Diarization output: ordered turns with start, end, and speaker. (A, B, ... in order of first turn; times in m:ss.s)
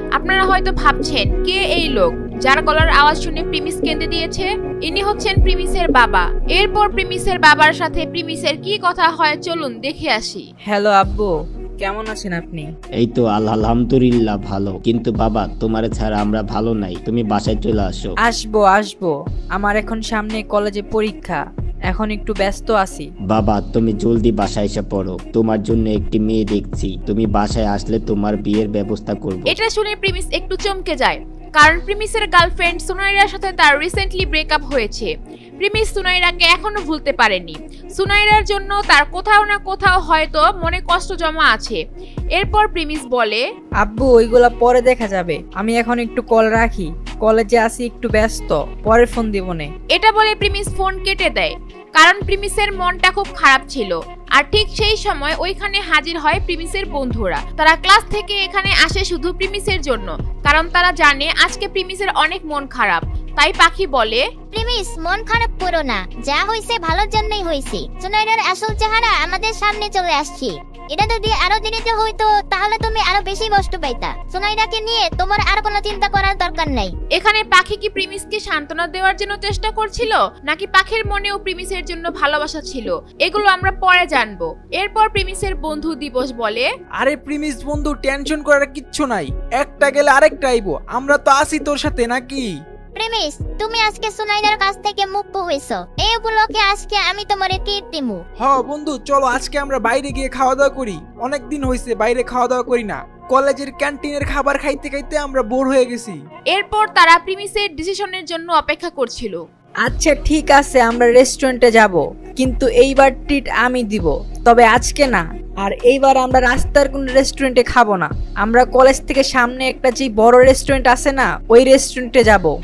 0:00.2-0:10.4 A
0:10.7-0:12.7 B
0:13.0-0:18.1 C
0:18.2-0:23.1 B
0:23.3-0:29.5 C
0:29.5-0:35.1 A
0:35.6-0:41.8 A
0:42.4-0:43.4 A
0:43.8-0:49.7 B
0:49.9-1:04.2 A
1:04.5-1:16.9 D
1:17.1-1:26.7 A
1:27.0-1:32.5 E
1:33.0-1:38.2 D
1:38.4-1:46.2 E
1:46.5-1:49.4 A
1:49.8-2:02.5 B